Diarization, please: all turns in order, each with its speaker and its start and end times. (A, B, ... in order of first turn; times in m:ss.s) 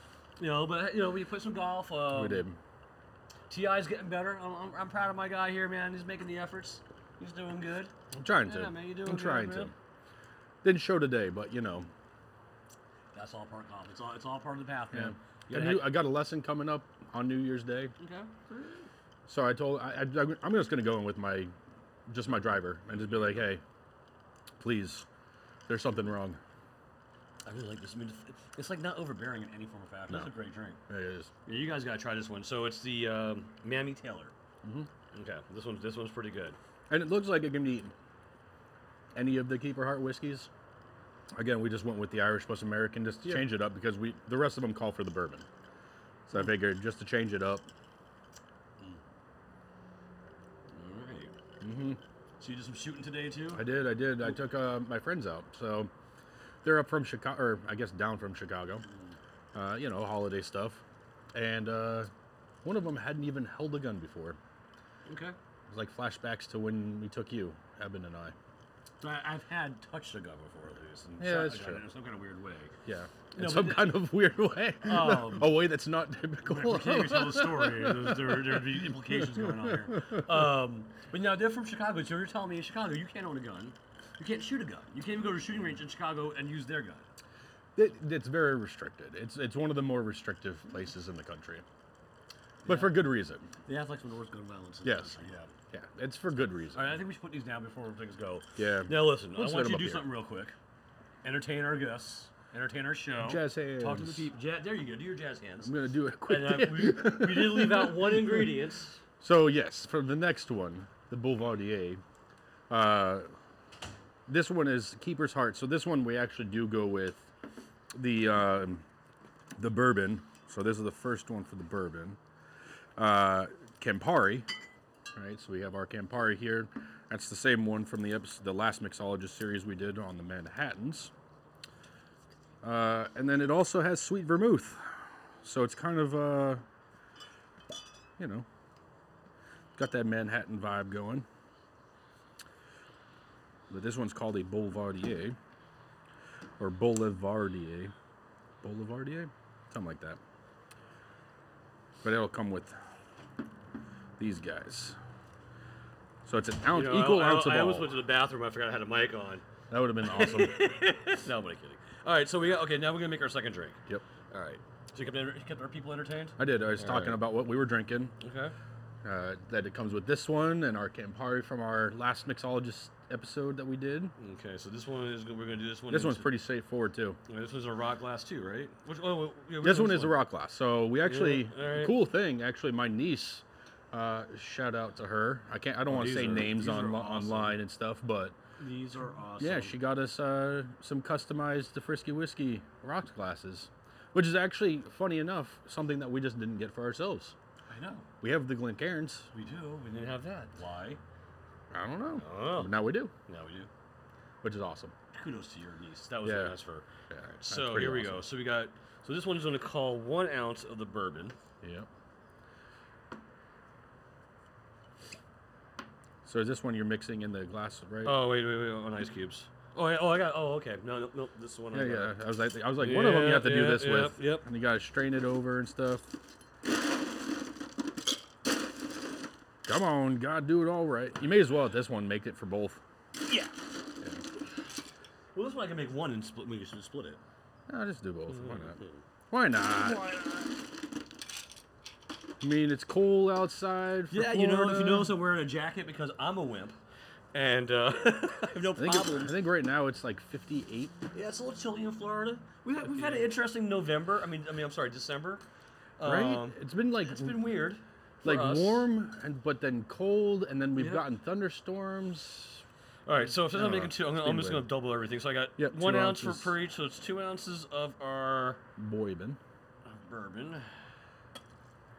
0:00.4-0:02.4 A
0:02.1-0:02.6 B
0:03.5-0:09.7 A
0:08.1-0:09.7 B
0:10.6-0:11.9 B
0:13.1-0:16.0 A
0:14.9-0:17.9 B
0:18.0-0:18.9 A
0:19.3-0:21.5 B
0:22.1-0:23.6 B
0:22.9-0:23.4 A
0:24.6-0:25.0 B
0:25.7-0:26.4 B
0:27.4-0:30.8 A
0:30.9-0:31.3 B
0:31.4-0:34.3 A
0:34.6-0:34.9 B
0:35.1-0:36.6 A
0:36.9-0:37.9 B
0:39.1-0:40.5 B
0:41.3-0:45.4 B
0:46.3-0:47.7 B
0:50.7-0:51.3 A
0:51.6-0:52.0 B
0:52.4-0:53.7 A
0:53.5-0:55.9 B
0:56.6-0:58.8 B
0:58.8-0:59.2 A
0:59.5-1:00.8 B
1:01.3-1:02.1 B
1:02.6-1:04.4 B
1:05.0-1:05.4 A
1:05.7-1:08.3 B
1:09.0-1:12.7 A
1:11.2-1:11.8 B
1:12.8-1:20.3 B
1:13.3-1:14.0 A
1:14.8-1:15.6 A
1:16.4-1:27.1 A
1:27.8-1:31.6 B
1:32.6-1:33.0 A
1:32.6-1:33.5 B
1:33.6-1:35.5 A
1:34.8-1:35.2 B
1:35.7-1:37.0 B
1:36.7-1:40.5 A
1:38.6-1:40.0 B
1:41.2-1:45.7 A
1:43.2-1:44.2 B
1:45.6-1:48.5 B
1:46.2-1:49.0 A
1:49.2-1:52.0 B
1:52.7-1:53.3 B
1:54.3-1:57.3 B
1:57.9-1:58.8 B
1:59.6-2:02.2 B
2:03.0-2:04.5 B
2:05.1-2:11.1 B
2:12.6-2:16.6 B
2:18.2-2:18.4 B
2:19.8-2:21.2 B
2:23.7-2:25.4 B
2:26.6-2:27.9 B
2:28.6-2:30.2 B
2:32.0-2:32.8 B
2:34.2-2:35.0 B
2:36.2-2:38.0 B
2:36.7-2:39.4 A
2:39.7-2:41.1 B
2:40.0-2:47.2 A
2:46.4-2:48.2 B
2:48.2-2:48.5 A
2:49.0-2:54.1 B
2:54.2-2:56.4 A
2:55.9-2:57.2 B
2:57.2-3:00.2 A
2:59.6-3:08.3 B
3:01.0-3:02.0 A
3:05.9-3:07.6 A
3:08.6-3:09.8 A
3:09.4-3:17.3 B
3:17.7-3:18.0 A
3:18.2-3:19.3 B
3:19.3-3:21.0 A
3:21.7-3:23.1 B
3:22.2-3:23.7 A
3:24.4-3:24.9 B
3:25.1-3:31.4 A
3:26.2-3:26.6 B
3:27.1-3:28.3 B
3:31.6-3:31.9 B
3:36.2-3:38.2 B
3:38.0-3:42.2 A
3:41.7-3:46.1 B
3:42.8-3:44.5 A
3:49.6-3:52.8 B
3:53.2-3:53.6 A
3:55.3-3:57.2 A
3:57.7-4:00.2 B
3:58.3-3:59.0 A
4:02.4-4:05.2 B
4:04.1-4:06.8 A
4:07.3-4:09.4 A
4:08.8-4:10.9 B
4:11.1-4:15.4 A
4:13.0-4:13.3 B
4:16.0-4:18.9 A
4:16.0-4:17.4 B
4:18.2-4:22.6 B
4:20.7-4:21.1 A
4:23.0-4:28.6 A
4:23.4-4:24.7 B
4:25.6-4:26.5 B
4:28.8-4:29.4 B
4:29.8-4:30.7 A